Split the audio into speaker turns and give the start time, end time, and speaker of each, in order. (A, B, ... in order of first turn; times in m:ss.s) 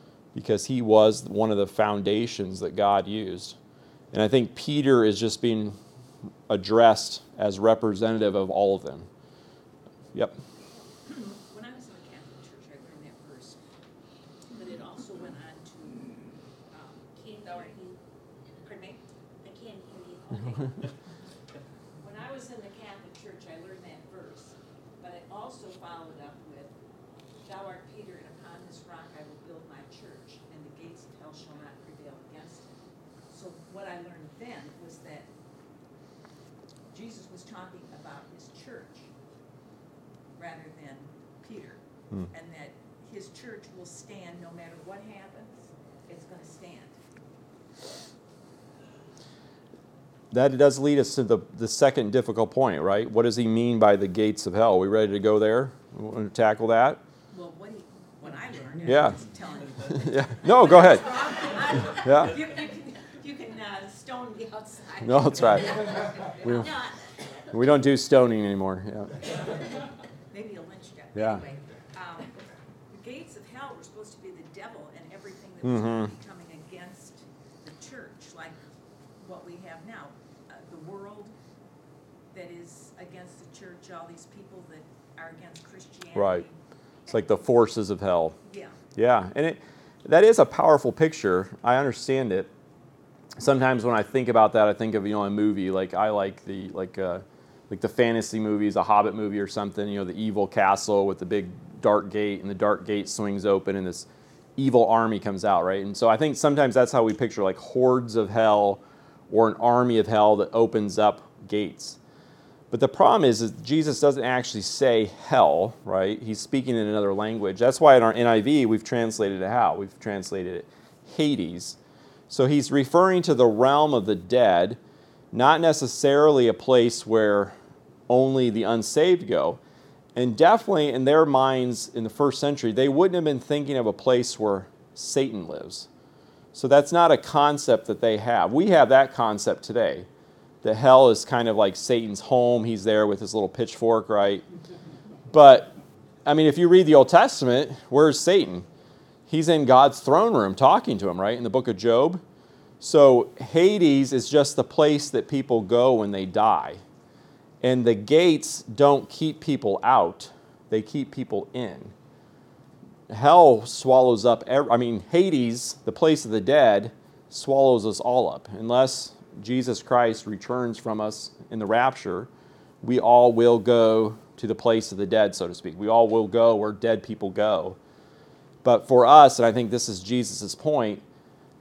0:00.3-0:03.6 A
0:04.1-0:05.8 A
0:06.5-0:09.1 A
0:11.0-0:13.6 B
0:14.6-0:17.8 B
0:17.2-0:18.0 C
0:18.6-0:19.0 B
0:19.4-0:20.9 C
0:22.0-0:26.7 B
0:27.4-0:32.7 B
0:33.3-0:35.3 B
0:36.9-0:39.1 B
0:40.4-0:47.0 B
0:50.3-0:57.0 A
0:57.3-1:06.9 B
0:58.8-0:59.2 A
0:59.9-1:02.4 A
1:05.0-1:06.7 A
1:06.6-1:06.9 C
1:07.5-1:09.2 A
1:10.3-1:12.3 B
1:11.2-1:11.4 A
1:12.9-1:18.6 B
1:15.6-1:16.1 A
1:19.2-1:21.3 B
1:22.3-1:27.4 B
1:26.2-1:26.4 A
1:27.1-1:28.4 A
1:28.4-1:28.8 B
1:29.0-1:32.5 A
1:33.4-1:44.1 A
1:44.6-1:52.0 A
1:52.7-2:01.8 A
2:02.3-2:04.8 A
2:05.3-2:07.6 A
2:08.1-2:09.6 A
2:10.2-2:15.9 A
2:16.5-2:20.1 A
2:20.6-2:24.4 A
2:25.3-2:25.7 A
2:26.3-2:28.7 A
2:29.3-2:32.2 A
2:32.8-2:36.8 A
2:37.6-2:41.9 A
2:43.1-2:52.3 A
2:52.8-2:57.8 A
2:58.6-3:01.0 A